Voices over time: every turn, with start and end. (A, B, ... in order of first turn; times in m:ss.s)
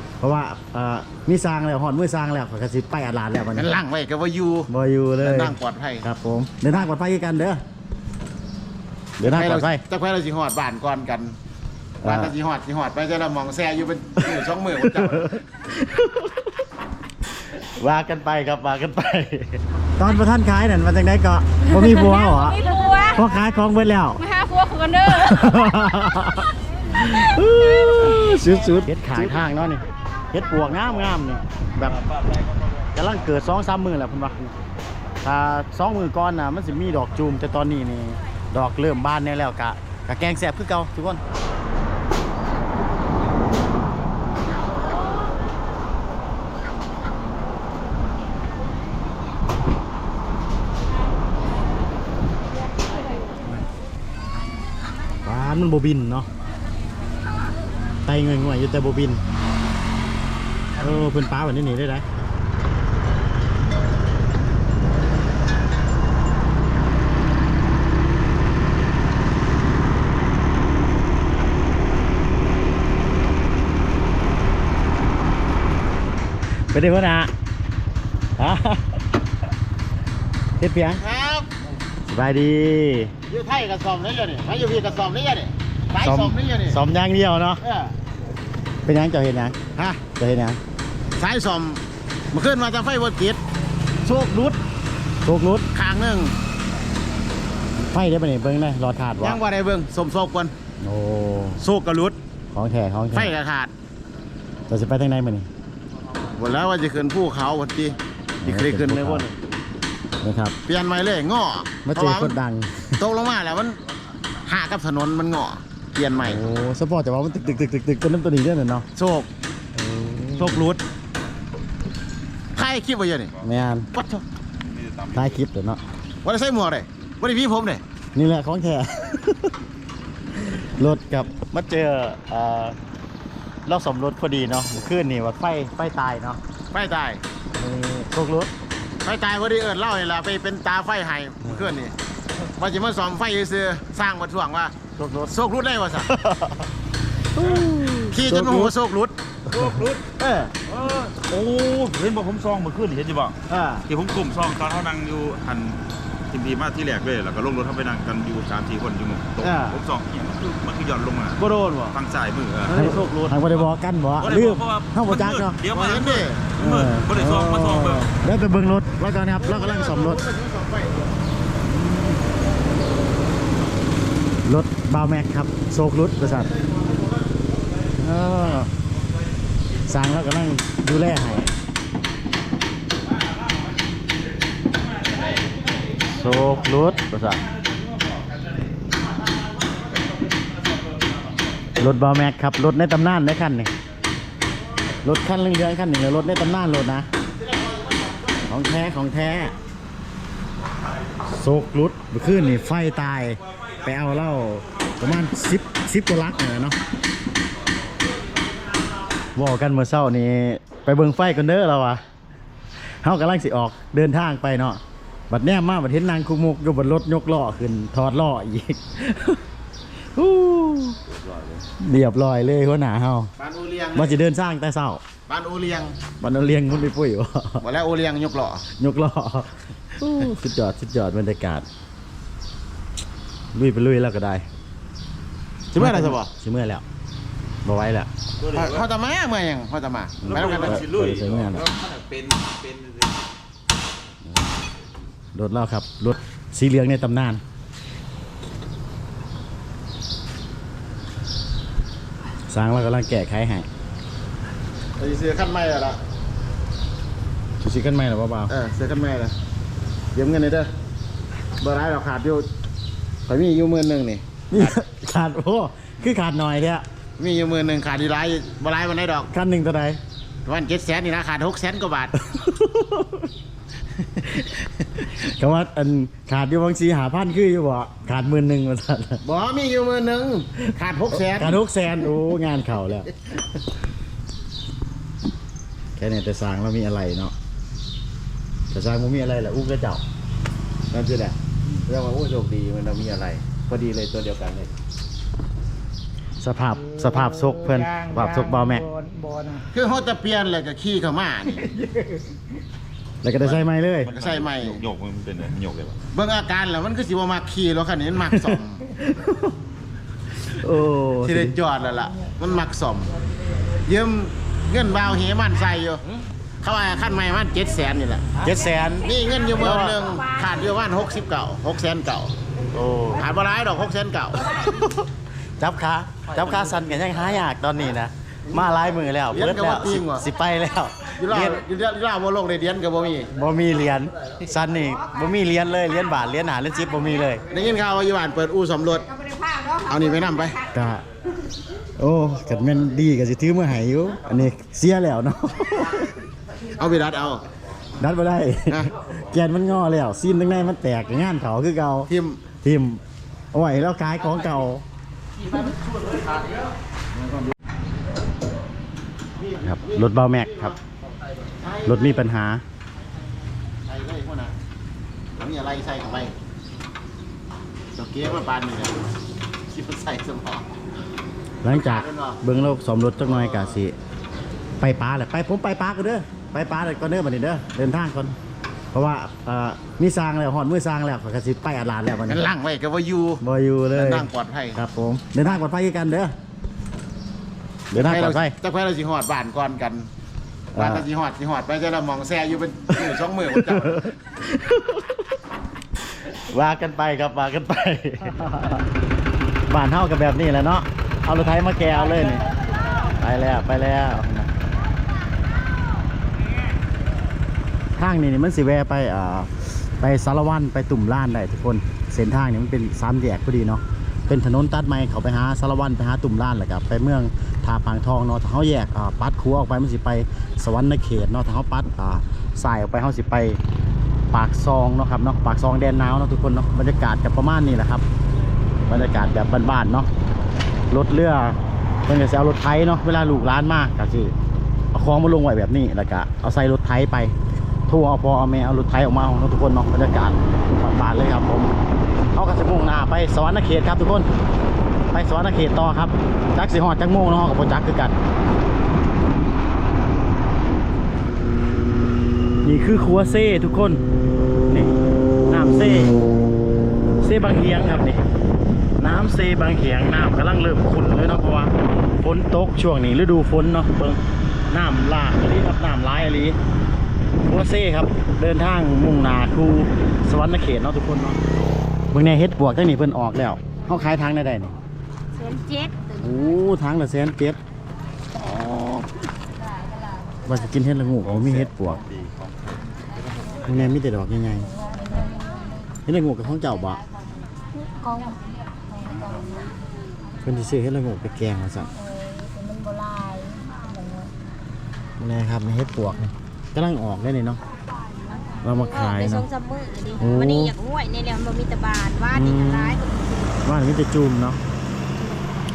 0:00.2-0:03.7 A
0:03.5-0:04.7 B
0:04.7-0:07.6 A
0:05.2-0:06.1 B
0:09.2-0:09.8 A
0:09.2-0:11.4 B
0:12.0-0:15.4 B
0:12.0-0:12.3 A
0:14.9-0:16.5 A
0:17.7-0:22.6 A
0:21.9-0:23.1 C
0:22.6-0:23.2 D
0:23.1-0:24.2 A
0:24.2-0:25.6 C
0:25.1-0:32.0 A
0:27.2-0:29.4 B
0:31.9-0:32.6 E
0:33.0-0:34.5 A
0:35.2-0:41.2 A
0:55.2-0:56.3 A
0:58.1-0:59.2 A
1:00.8-1:02.0 A
1:16.7-1:17.3 A
1:18.4-1:19.0 A
1:20.6-1:21.0 A
1:21.0-1:21.5 B
1:22.1-1:23.1 A
1:23.3-1:26.8 B
1:26.0-1:27.6 A
1:27.6-1:28.0 B
1:28.8-1:29.6 A
1:29.8-1:30.0 B
1:30.1-1:30.6 A
1:31.2-1:33.4 B
1:34.0-1:34.6 B
1:35.2-1:35.7 A
1:35.7-1:36.4 B
1:37.8-1:39.4 A
1:39.2-1:40.5 B
1:40.8-1:41.6 A
1:41.6-1:42.2 B
1:42.5-1:43.3 A
1:43.1-1:43.7 B
1:44.7-1:45.5 A
1:46.3-1:49.4 B
1:48.4-1:49.3 A
1:50.2-1:50.6 A
1:50.7-1:52.4 B
1:51.8-1:53.0 A
1:53.0-1:53.8 B
1:54.4-1:56.4 B
1:56.2-1:58.9 A
1:59.0-1:59.3 B
1:59.8-2:00.6 A
2:00.4-2:00.8 B
2:02.5-2:03.4 B
2:03.4-2:03.9 A
2:03.9-2:04.2 B
2:04.6-2:05.4 E
2:05.1-2:05.8 A
2:06.2-2:07.8 B
2:08.2-2:09.5 A
2:10.4-2:12.8 A
2:13.7-2:16.4 A
2:16.7-2:17.2 B
2:17.6-2:18.5 A
2:19.0-2:22.0 B
2:21.4-2:21.7 A
2:22.6-2:24.8 B
2:25.0-2:25.4 A
2:25.3-2:26.1 B
2:26.1-2:26.7 A
2:27.4-2:28.7 A
2:27.4-2:27.7 E
2:28.1-2:29.2 B
2:29.5-2:30.5 A
2:29.5-2:30.0 E
2:30.7-2:43.7 E
2:33.5-2:33.9 A
2:39.4-2:39.8 A
2:41.4-2:41.9 A
2:42.7-2:45.6 A
2:44.2-2:48.1 E
2:45.7-2:46.5 B
2:46.6-2:50.2 A
2:49.4-2:51.1 B
2:51.7-2:52.2 A
2:54.4-2:56.5 A
2:58.0-2:58.7 A
2:59.9-3:01.5 A
3:06.1-3:07.4 A
3:11.8-3:13.7 A
3:15.0-3:17.1 A
3:17.5-3:18.0 B
3:18.5-3:19.5 A
3:21.2-3:26.8 A
3:29.4-3:32.0 A
3:33.0-3:39.4 A
3:40.2-3:41.0 A
3:41.1-3:41.6 E
3:41.8-3:43.3 A
3:43.4-3:44.2 B
3:44.0-3:45.0 A
3:45.3-3:46.0 B
3:46.2-3:47.6 A
3:47.6-3:48.7 B
3:48.8-3:51.7 A
3:53.5-3:54.4 A
3:55.7-3:56.3 B
3:55.8-3:56.8 A
3:57.6-3:58.1 A
3:58.4-3:58.8 E
3:58.5-4:00.8 B
4:00.2-4:01.7 A
4:00.3-4:03.1 E
4:05.3-4:07.4 A
4:12.5-4:13.7 A
4:15.0-4:16.0 B
4:17.6-4:18.5 A
4:18.5-4:19.4 B
4:20.1-4:20.7 B
4:21.6-4:22.5 B
4:23.3-4:24.8 B
4:24.5-4:26.8 A
4:27.2-4:29.3 B
4:29.3-4:30.0 A
4:30.4-4:32.1 B
4:32.2-4:33.3 A
4:35.2-4:39.2 A
4:39.2-4:41.6 B
4:41.2-4:43.1 A
4:46.0-4:47.3 A
4:48.7-4:50.0 A
4:50.9-4:54.7 B
4:56.4-4:58.9 A
4:58.9-4:59.6 C
4:59.6-5:01.8 B
5:03.2-5:04.1 A
5:03.4-5:04.8 B
5:04.0-5:06.0 E
5:06.1-5:08.8 B
5:08.3-5:09.5 A
5:10.5-5:11.6 A
5:11.2-5:13.1 B
5:13.8-5:16.1 B
5:16.6-5:18.4 B
5:18.4-5:20.0 A
5:19.0-5:22.3 B
5:22.7-5:23.2 A
5:23.1-5:24.7 B
5:24.5-5:25.1 A
5:25.6-5:31.6 A
5:29.3-5:30.2 B
5:31.2-5:33.3 B
5:33.3-5:37.4 A
5:37.5-5:39.1 B
5:39.2-5:40.4 D
5:39.8-5:40.6 B
5:40.7-5:41.0 A
5:42.0-5:46.2 A
5:46.8-5:47.5 B
5:48.0-5:53.0 A
5:52.1-5:52.4 B
5:53.5-5:54.8 A
5:56.0-5:56.5 B
5:59.5-5:59.9 B
5:59.6-6:00.8 A
6:01.6-6:02.2 B
6:01.8-6:02.6 A
6:03.8-6:04.6 B
6:05.4-6:06.3 B
6:08.0-6:09.0 B
6:09.7-6:10.7 B
6:11.6-6:14.0 A
6:11.7-6:12.4 B
6:13.4-6:13.8 B
6:14.8-6:18.4 A
6:18.9-6:22.4 A
6:22.3-6:24.8 B
6:23.4-6:26.3 A
6:27.9-6:28.6 A
6:27.9-6:30.1 B
6:30.7-6:34.1 B
6:30.8-6:31.0 A
6:33.9-6:35.0 A
6:36.5-6:38.8 A
6:39.7-6:42.4 A
6:43.2-6:44.5 A
6:48.0-7:03.6 A
7:04.3-7:08.0 A
7:08.9-7:10.1 A
7:10.9-7:14.3 A
7:14.9-7:17.4 A
7:17.9-7:21.7 A
7:22.3-7:24.3 A
7:25.1-7:28.2 A
7:32.6-7:34.0 A
7:34.7-7:36.2 A
7:37.2-7:38.2 A
7:39.0-7:46.6 A
7:47.5-7:51.4 A
7:52.1-7:54.8 A
7:55.4-7:56.1 D
7:56.2-7:57.6 A
7:58.4-7:59.1 A
8:00.5-8:02.0 A
8:01.2-8:02.9 E
8:03.4-8:03.8 E
8:03.6-8:04.7 A
8:05.0-8:05.4 D
8:06.1-8:07.0 A
8:08.0-8:08.3 C
8:08.9-8:09.6 C
8:10.4-8:11.9 A
8:12.0-8:14.3 D
8:15.2-8:17.6 A
8:18.6-8:19.5 A
8:18.8-8:23.5 D
8:20.2-8:20.8 A
8:22.3-8:23.0 A
8:23.6-8:24.6 A